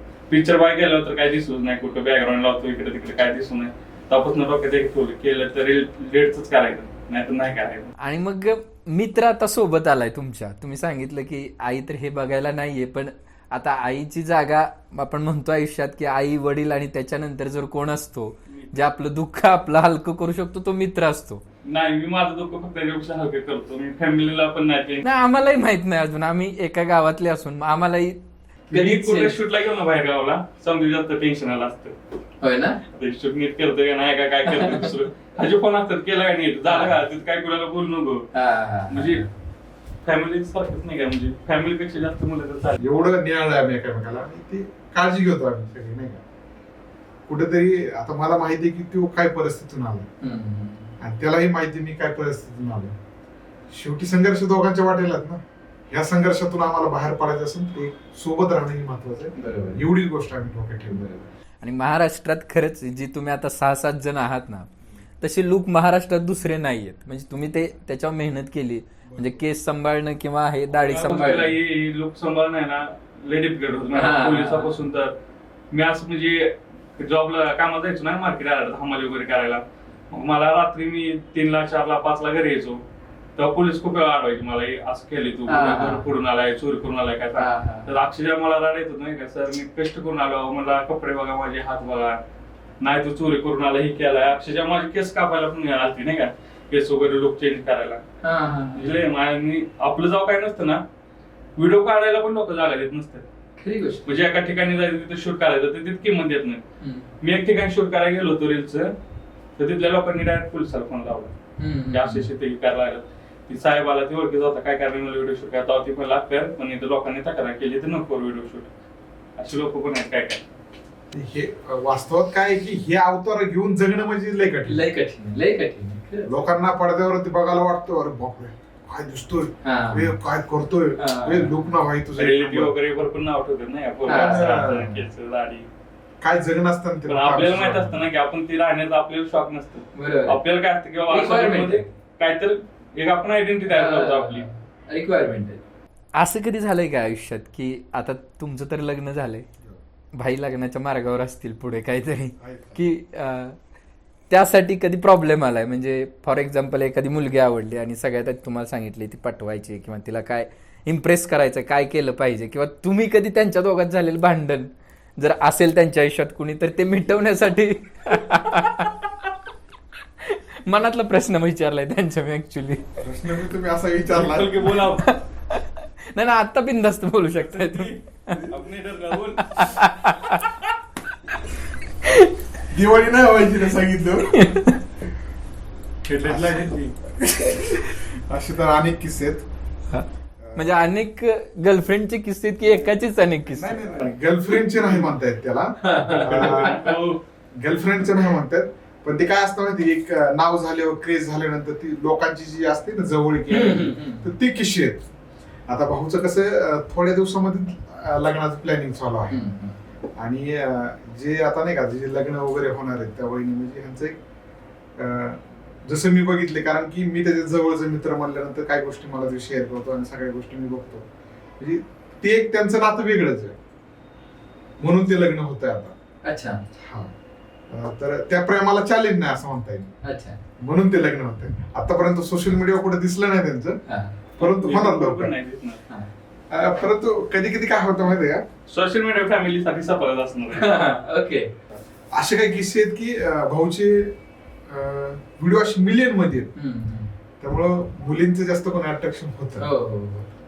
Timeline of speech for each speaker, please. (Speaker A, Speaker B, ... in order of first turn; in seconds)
Speaker A: 0.3-7.9, 21.6-25.1, 28.7-31.9, 32.9-38.3, 38.9-39.2, 40.0-42.9, 70.9-75.1, 75.7-82.8, 83.4-92.2, 92.8-98.0, 98.8-100.8, 101.6-103.2, 104.1-106.6, 107.2-108.9, 109.6-111.4, 111.9-118.7, 119.4-120.4, 132.2-135.7, 137.1-144.5, 174.1-175.1, 177.6-179.8, 186.1-186.7, 196.1-197.2, 234.4-235.8, 238.7-240.7
Speaker B: 8.0-21.4, 25.0-29.4, 32.4-32.8, 34.5-35.0, 36.7-37.0, 38.3-39.3, 50.2-50.9, 59.4-59.8, 61.6-64.7, 65.2-71.6, 74.0-74.8, 85.5-86.1, 87.4-87.9, 98.2-98.9, 103.6-104.1, 106.8-107.1, 111.6-112.2, 124.7-126.3, 129.6-130.1, 131.0-131.5, 134.1-134.8, 139.9-140.4, 141.1-141.9, 143.7-145.6, 146.2-149.5, 150.2-153.6, 154.3-169.3, 170.2-172.9, 174.9-178.4, 179.4-180.6, 182.0-182.3, 184.3-184.8, 189.9-194.2, 195.8-197.1, 203.5-204.3, 209.3-209.8, 226.2-226.6, 230.0-230.4, 233.9-234.2, 240.5-241.5, 246.6-247.1, 249.6-250.3
Speaker C: 42.8-46.2, 47.3-50.1, 51.0-53.0, 53.7-61.3, 69.1-69.4, 121.1-124.9, 126.2-132.7, 134.1-135.0, 136.2-138.0, 152.4-152.9, 173.0-174.7, 182.7-184.5, 186.2-189.5, 190.4-190.8, 193.5-197.0, 197.5-205.0, 205.7-209.4, 210.2-214.2, 215.0-221.1, 221.6-223.6, 224.8-225.9, 226.8-227.1, 227.7-230.0, 230.6-233.8, 234.4-235.3, 236.5-238.4, 242.1-244.2, 244.7-246.5, 247.4-249.7